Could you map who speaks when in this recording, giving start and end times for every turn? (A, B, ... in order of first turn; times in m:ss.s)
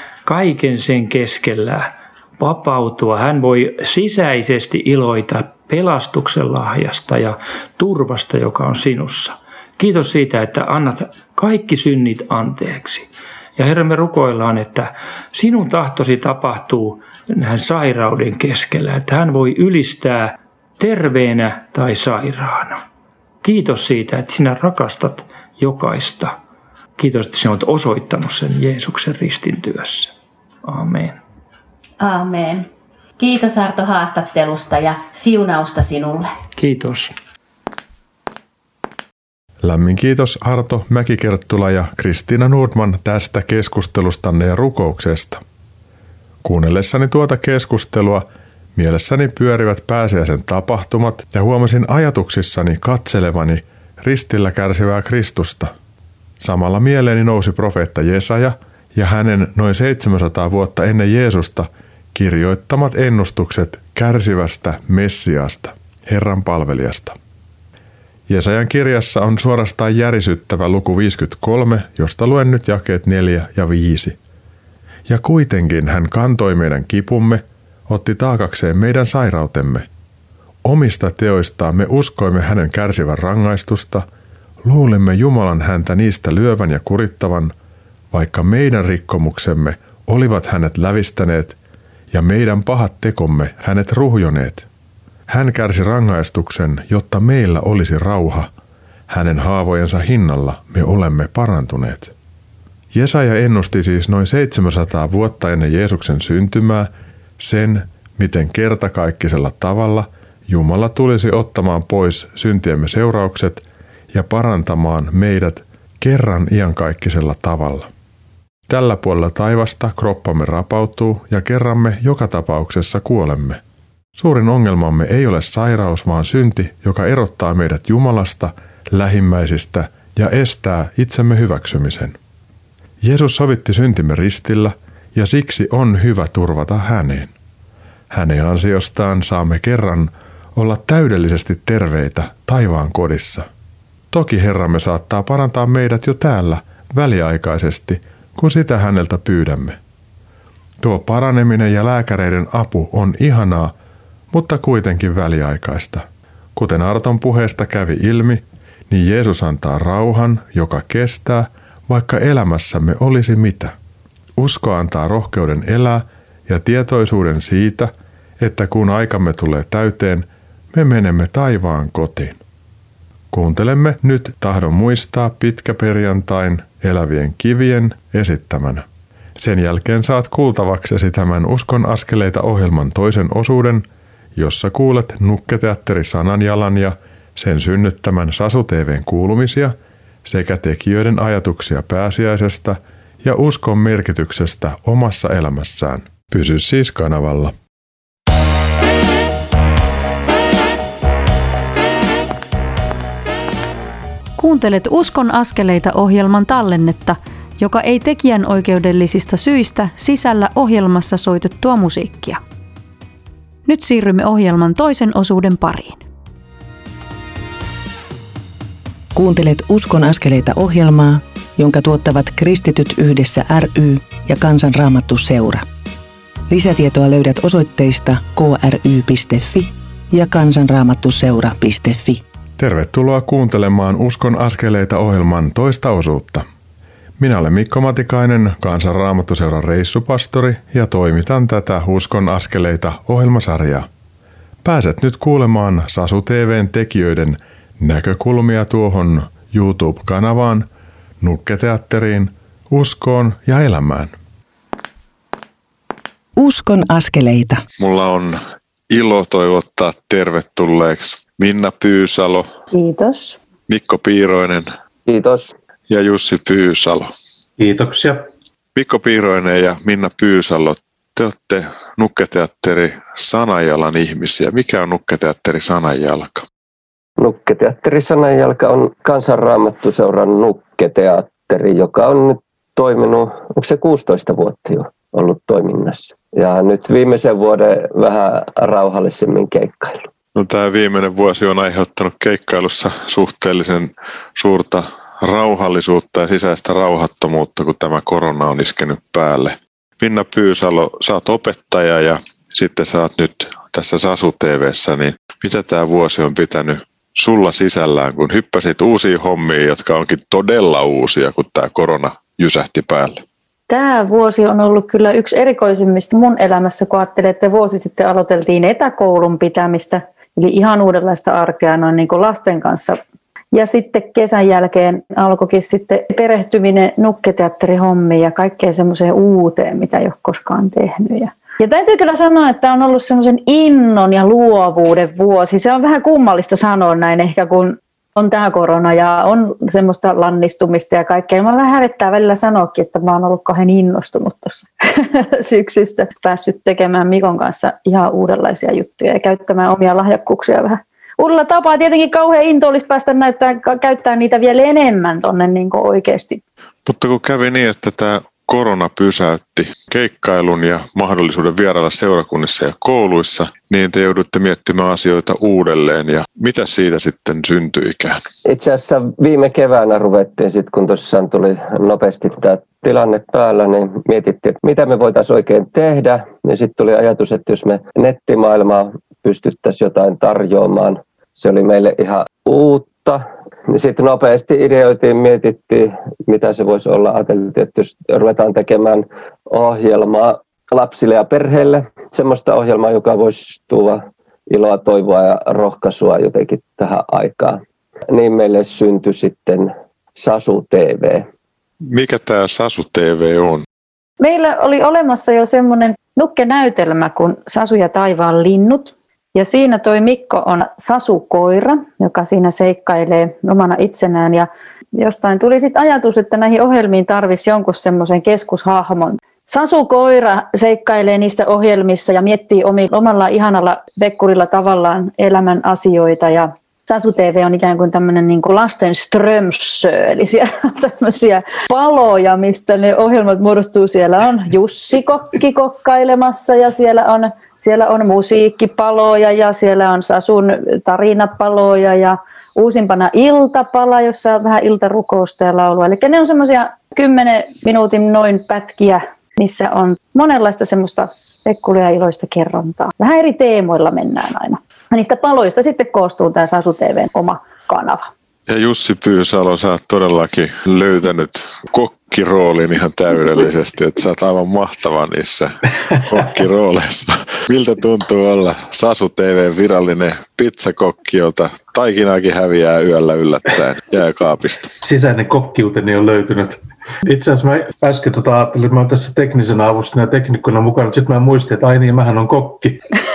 0:00.3-0:22.8 A
0:23.4-0:26.4 A
0:27.0-0:31.2 A
0:32.0-0:32.7 B
0:33.2-0:36.3 B
0:36.6-0:37.1 A
0:39.6-0:45.4 C
0:46.4-0:55.7 C
0:56.4-1:07.2 C
1:08.3-1:14.2 C
1:15.1-1:19.9 C
1:20.6-1:24.1 C
1:24.6-1:27.6 C
1:28.1-1:31.6 C
1:32.1-1:34.7 C
1:35.3-1:38.5 C
1:39.1-1:42.1 C
1:42.9-1:57.9 C
1:58.7-2:03.6 C
2:04.2-2:12.2 C
2:13.0-2:17.3 C
2:18.1-2:23.5 C
2:24.1-2:29.8 C
2:30.8-2:33.7 C
2:34.3-2:36.0 C
2:36.6-2:43.7 C
2:44.4-2:52.4 C
2:53.3-3:17.6 C
3:24.4-3:32.4 D
3:33.7-3:36.0 D
3:39.2-3:45.6 E
3:46.5-3:52.2 E
3:52.6-3:56.5 C
3:57.2-4:03.9 C
4:04.6-4:10.7 C
4:11.2-4:14.1 C
4:16.4-4:17.6 E
4:17.8-4:18.4 F
4:18.9-4:22.5 F
4:22.7-4:23.4 G
4:23.7-4:24.7 F
4:25.1-4:25.5 H
4:25.9-4:27.1 F
4:27.6-4:28.3 I
4:28.8-4:36.4 F
4:37.2-4:50.1 H
4:50.4-5:13.2 F
5:13.7-5:23.0 G
5:23.5-5:56.4 G
5:56.9-6:08.2 F
6:08.5-6:37.6 H
6:38.1-6:41.3 H
6:41.9-6:43.6 F
6:44.2-7:38.1 G
7:38.5-7:54.7 F
7:54.8-8:02.8 I